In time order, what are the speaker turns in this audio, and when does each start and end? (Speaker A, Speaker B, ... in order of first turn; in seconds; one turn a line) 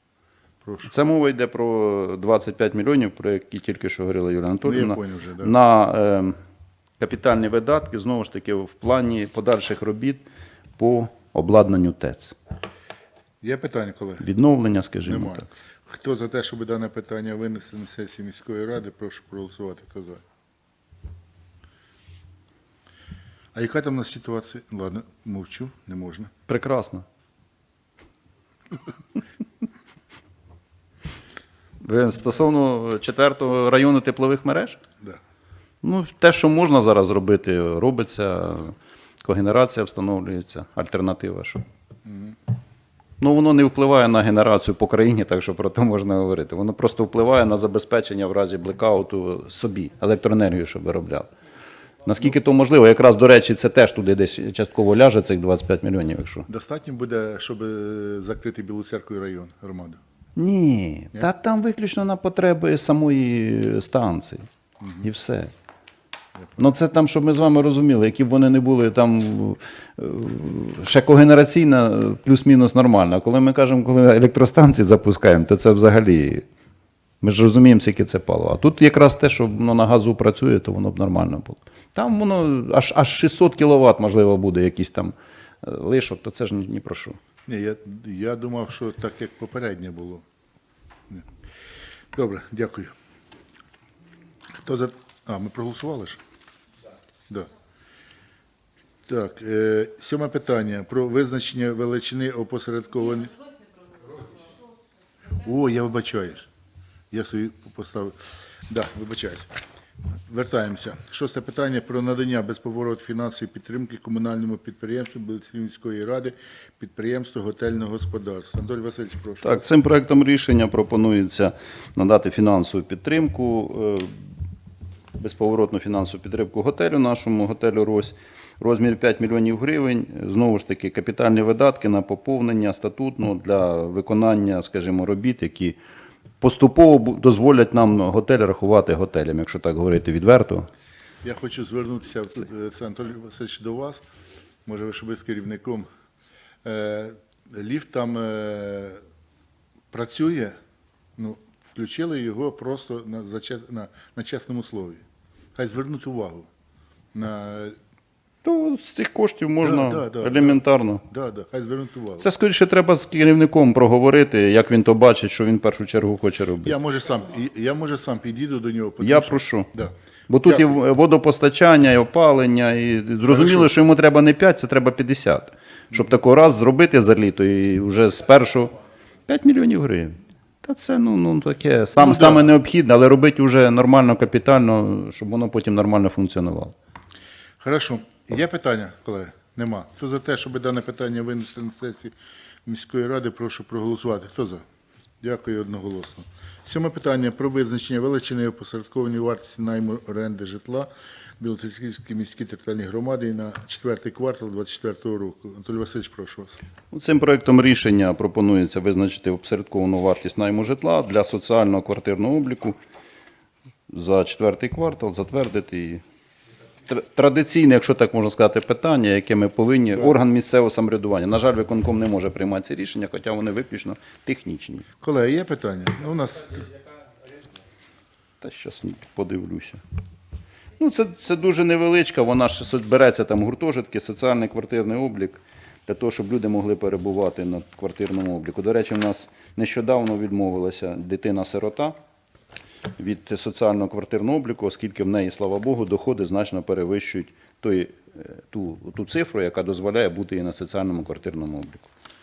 Speaker A: 0.6-0.9
Speaker B: 0.8-6.3
Speaker A: 4.6-5.5
Speaker B: 7.0-10.2
Speaker B: 10.8-12.3
Speaker A: 13.4-14.2
Speaker B: 14.2-15.4
Speaker A: 15.0-20.2
Speaker A: 23.5-26.3
Speaker B: 26.5-27.0
Speaker B: 31.8-34.8
Speaker B: 35.8-41.6
Speaker A: 42.0-42.4
Speaker B: 43.2-51.3
Speaker B: 52.0-56.5
Speaker A: 56.5-60.0
Speaker B: 60.4-64.4
Speaker A: 64.8-65.1
Speaker B: 65.0-65.5
Speaker B: 66.6-76.4
Speaker B: 77.2-87.2
Speaker A: 87.5-90.2
Speaker A: 92.1-92.9
Speaker A: 94.5-96.2
Speaker A: 99.1-103.3
Speaker A: 105.3-106.5
Speaker A: 107.1-108.2
Speaker A: 108.7-109.5
Speaker A: 110.3-119.6
Speaker B: 119.4-124.1
Speaker B: 125.2-135.8
Speaker B: 136.4-140.7
Speaker A: 141.2-144.0
Speaker A: 144.7-145.8
Speaker A: 146.6-149.0
Speaker A: 149.9-150.6
Speaker A: 151.2-155.0
Speaker A: 155.6-156.5
Speaker A: 157.1-157.8
Speaker B: 158.4-161.0
Speaker A: 159.6-162.3
Speaker B: 162.2-166.7
Speaker A: 166.6-170.8
Speaker B: 169.0-169.7
Speaker B: 170.3-178.7
Speaker A: 173.3-173.7
Speaker B: 179.3-186.7
Speaker A: 182.0-182.4
Speaker A: 187.6-192.1
Speaker A: 192.7-194.6
Speaker A: 195.2-206.6
Speaker B: 206.9-212.8
Speaker B: 213.9-216.0
Speaker B: 216.9-224.8
Speaker A: 225.0-226.7
Speaker B: 228.4-229.8
Speaker B: 230.8-241.9
Speaker B: 243.0-251.9